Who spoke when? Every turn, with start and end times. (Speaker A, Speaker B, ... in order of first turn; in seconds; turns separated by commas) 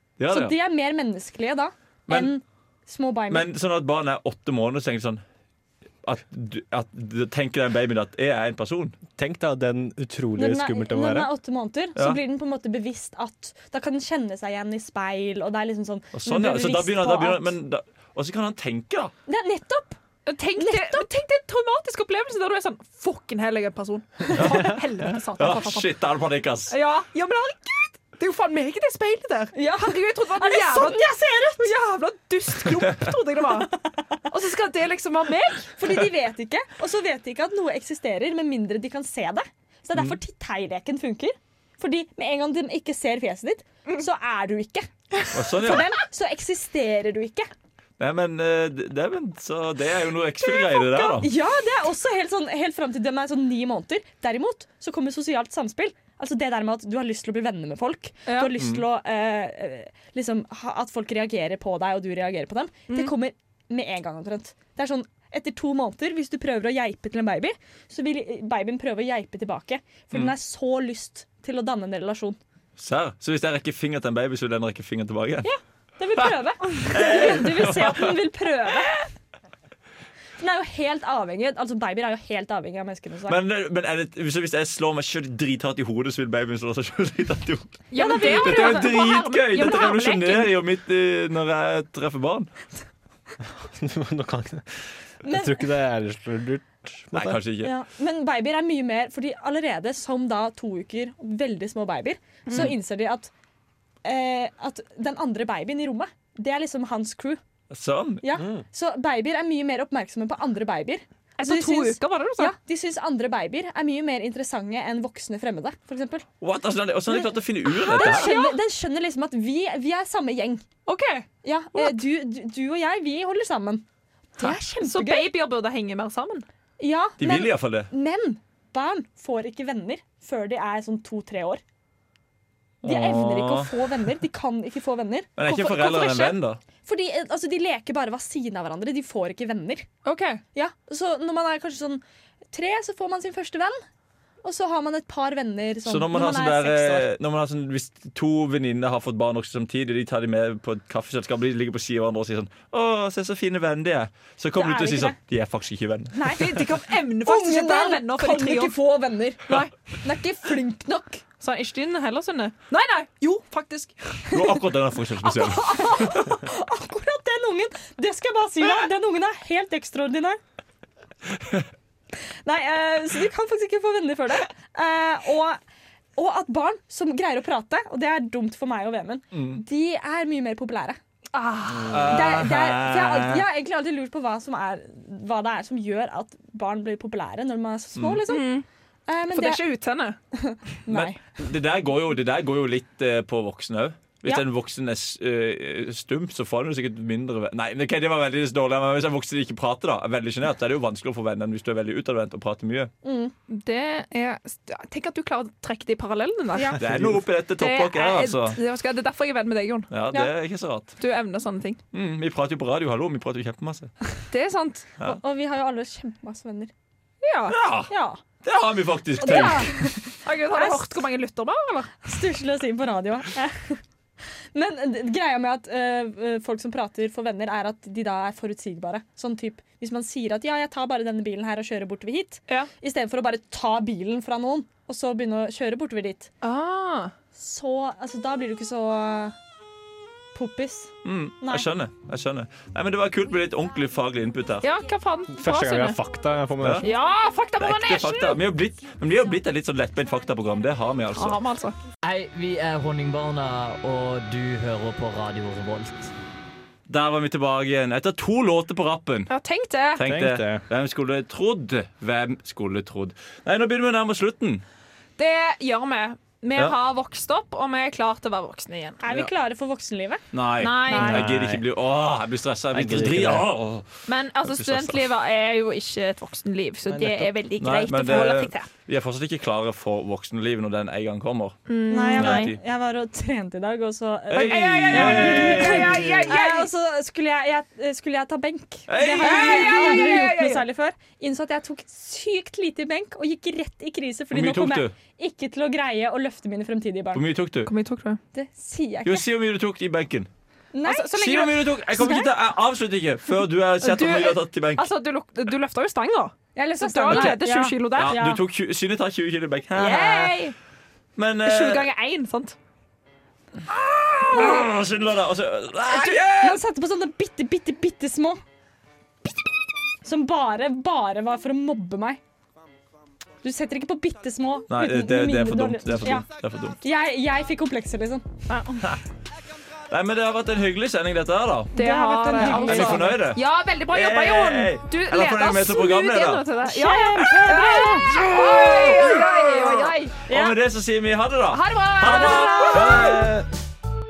Speaker A: 0.2-0.5, Speaker B: 0.3-3.5, Speaker A: 2.1-2.3, Speaker A: 3.3-5.2, Speaker A: 6.0-8.9, Speaker C: 9.2-11.3, Speaker B: 10.3-17.5, Speaker A: 16.1-19.1, Speaker B: 19.3-20.0, Speaker D: 20.2-25.9, Speaker B: 20.6-21.1, Speaker A: 24.3-24.8, Speaker A: 25.4-26.7, Speaker D: 26.7-33.7, Speaker B: 29.5-31.7, Speaker B: 33.8-34.2, Speaker D: 34.2-35.7, Speaker B: 35.8-47.5, Speaker A: 45.3-46.0, Speaker A: 48.0-51.3, Speaker B: 50.8-72.4, Speaker A: 58.6-58.8, Speaker A: 72.8-75.5, Speaker B: 75.4-79.0, Speaker A: 76.9-78.2, Speaker B: 80.4-83.4, Speaker A: 83.3-92.5, Speaker D: 87.9-90.5, Speaker B: 87.9-89.0, Speaker C: 93.6-97.4, Speaker B: 95.2-95.6, Speaker A: 97.1-97.7, Speaker B: 97.6-103.3, Speaker B: 104.0-107.4, Speaker A: 107.7-108.2, Speaker B: 108.2-116.2, Speaker D: 111.4-112.5, Speaker A: 116.4-118.3, Speaker B: 117.8-120.6, Speaker D: 117.9-118.5, Speaker D: 120.9-121.2, Speaker B: 121.4-123.8, Speaker B: 124.3-125.2, Speaker D: 124.8-126.4, Speaker B: 126.8-131.6, Speaker A: 127.2-127.9, Speaker A: 132.8-133.7, Speaker B: 132.8-136.2, Speaker A: 135.4-136.6, Speaker D: 135.5-136.3, Speaker B: 136.8-139.9, Speaker D: 140.0-140.4, Speaker B: 140.5-143.8, Speaker B: 144.4-147.1, Speaker A: 145.8-156.2, Speaker B: 154.6-155.2, Speaker D: 156.2-158.8, Speaker B: 157.2-161.2, Speaker D: 161.4-164.3, Speaker A: 164.3-166.3, Speaker D: 165.2-166.2, Speaker B: 165.8-170.4, Speaker B: 172.4-175.6, Speaker B: 176.1-181.0, Speaker A: 179.3-179.6, Speaker D: 181.3-182.3, Speaker A: 181.8-183.4, Speaker B: 182.1-188.5, Speaker A: 188.0-188.2, Speaker D: 188.3-188.6, Speaker B: 189.1-189.6, Speaker D: 189.3-190.2, Speaker B: 190.3-191.2, Speaker A: 190.9-202.9, Speaker B: 203.0-203.3, Speaker D: 203.5-206.8, Speaker A: 206.8-208.6, Speaker C: 206.8-207.2, Speaker D: 207.6-210.3, Speaker A: 209.9-211.0, Speaker D: 210.8-211.8, Speaker A: 211.9-214.1, Speaker D: 214.3-215.1, Speaker B: 215.1-216.7, Speaker D: 217.2-217.6, Speaker A: 217.5-217.9, Speaker B: 217.9-218.2, Speaker A: 218.4-219.8, Speaker B: 219.2-221.0, Speaker D: 219.2-222.0, Speaker B: 222.0-223.8, Speaker B: 224.5-236.3, Speaker D: 236.4-237.1, Speaker B: 237.3-239.3, Speaker B: 240.3-241.7, Speaker A: 241.0-244.7, Speaker D: 244.6-246.0, Speaker C: 245.3-246.8, Speaker A: 246.6-246.9, Speaker D: 246.8-248.4, Speaker A: 247.6-251.4, Speaker D: 251.1-251.7, Speaker E: 252.0-256.1, Speaker A: 256.9-259.3, Speaker D: 259.3-260.0, Speaker A: 260.0-264.6, Speaker C: 260.0-260.6, Speaker D: 265.2-269.0, Speaker B: 269.0-270.2, Speaker A: 270.3-275.0, Speaker D: 270.6-271.2, Speaker B: 270.9-271.3, Speaker C: 270.9-271.6, Speaker C: 272.7-273.5, Speaker D: 274.1-278.7, Speaker C: 276.9-277.3, Speaker A: 277.6-282.6, Speaker D: 281.7-282.5, Speaker B: 281.9-297.2, Speaker A: 284.3-286.3, Speaker D: 284.4-286.7, Speaker A: 288.9-290.2, Speaker D: 289.2-290.6, Speaker A: 294.3-294.9, Speaker A: 297.1-297.7, Speaker D: 297.6-298.2, Speaker B: 298.3-299.2, Speaker A: 299.0-300.3, Speaker B: 300.7-302.3, Speaker D: 300.8-301.5, Speaker A: 301.1-304.9, Speaker D: 303.8-308.2, Speaker B: 306.6-308.4, Speaker A: 307.9-310.4, Speaker D: 309.7-310.5, Speaker A: 311.1-311.9, Speaker D: 311.4-312.6, Speaker A: 313.7-316.6, Speaker B: 314.3-314.7, Speaker B: 315.9-318.4, Speaker B: 320.0-322.2, Speaker B: 323.4-326.2, Speaker A: 324.7-326.8, Speaker B: 326.8-328.2, Speaker D: 328.5-328.8, Speaker A: 329.9-331.8, Speaker D: 331.7-340.2, Speaker B: 331.8-333.1, Speaker A: 332.4-336.5, Speaker B: 336.6-338.1, Speaker A: 338.0-343.5, Speaker B: 340.3-340.6, Speaker D: 341.5-343.2, Speaker B: 342.0-343.2